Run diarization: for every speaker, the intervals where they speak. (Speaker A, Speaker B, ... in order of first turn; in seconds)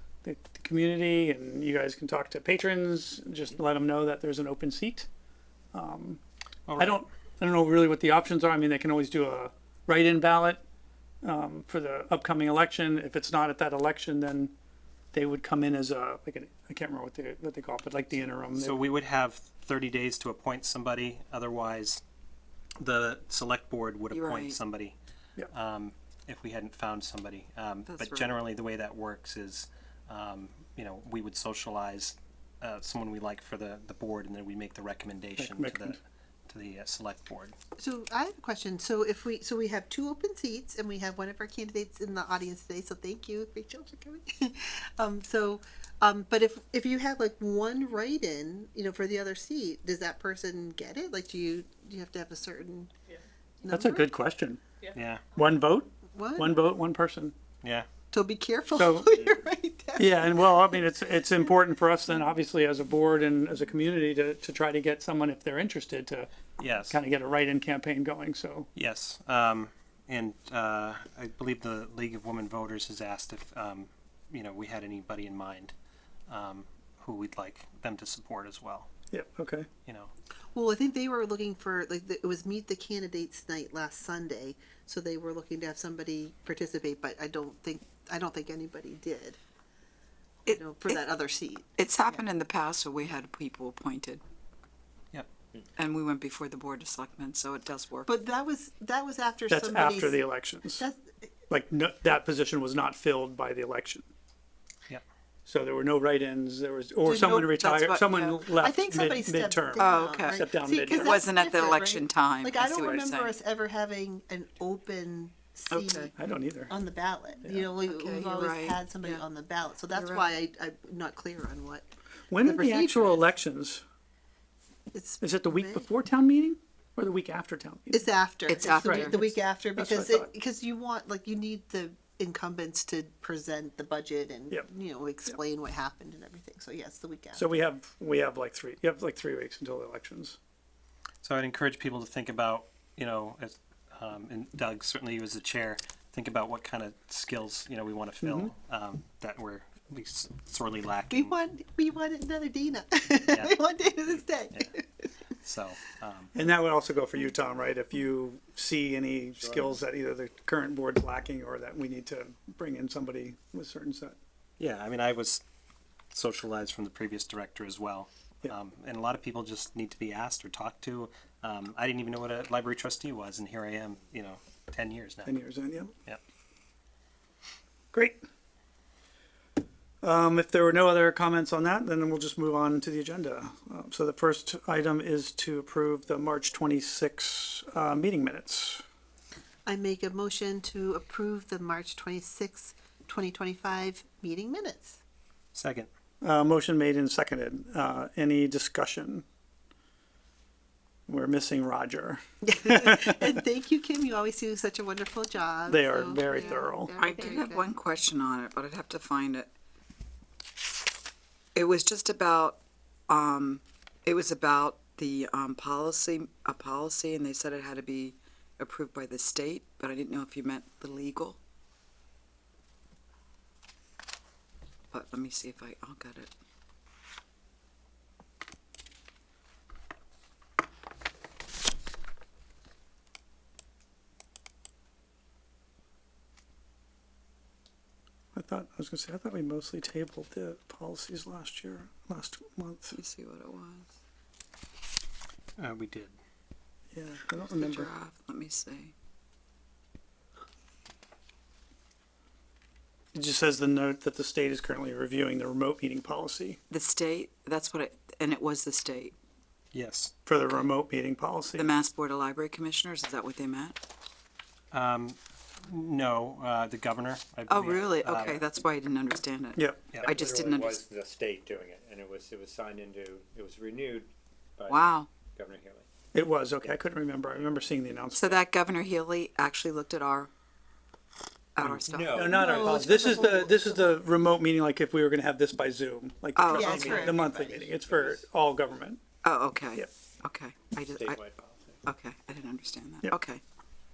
Speaker A: 0.2-5.1, 5.7-6.2, 6.8-10.6, 11.2-14.5, 15.1-18.8, 35.4-36.0, 53.7-54.6, 55.3-57.3, 58.8-59.1, 60.0-66.3, 66.9-68.7, 79.1-79.7, 99.5-100.8, 101.5-104.1, 105.5-111.2, 116.2-116.7, 117.4-117.7, 122.3-123.8, 125.2-128.1, 128.8-130.3, 137.3-140.4, 148.2-148.5, 156.3-164.2, 175.2-175.9, 177.9-178.2, 180.0-188.8, 196.2-199.2, 201.1-203.1, 205.7-206.9, 238.3-243.0, 246.9-247.9, 253.1-256.6, 260.2-261.7, 276.1-278.4, 281.7-289.0
Speaker B: 6.7-7.0, 18.6-22.0, 22.8-24.9, 25.5-37.5, 54.9-55.2, 66.6-67.0, 68.8-75.7, 76.3-78.9, 79.9-80.1, 141.2-151.3, 153.2-153.6, 155.4-156.3, 164.6-165.4, 166.1-175.3, 195.6-195.9, 245.6-246.2, 259.7-260.2, 264.7-268.5
Speaker C: 24.1-24.6, 27.9-28.4, 90.5-91.0, 91.8-94.2, 95.8-98.1, 107.1-108.5, 109.8-113.3, 115.7-116.1, 117.9-119.2, 119.9-120.3, 128.5-129.3, 206.3-209.5, 211.6-221.4, 224.9-226.3, 242.9-243.9, 247.5-248.9, 256.7-259.1, 261.5-263.8, 267.5-270.8, 274.7-275.1, 278.1-280.3, 281.6-282.2, 286.4-286.8, 289.2-291.2, 291.9-293.4
Speaker D: 37.8-52.9, 53.6-54.0, 56.1-56.5, 58.1-60.6, 80.5-89.4, 90.5-92.2, 98.1-100.2, 100.8-101.3, 107.0-108.0, 108.5-116.1, 116.7-121.9, 122.4-123.3, 124.9-125.9, 127.9-137.6, 151.1-155.2, 189.7-195.0, 202.4-207.8, 282.3-283.9, 286.5-287.2
Speaker E: 159.4-159.7, 269.9-275.9, 281.9-283.1, 286.7-288.2, 290.8-291.8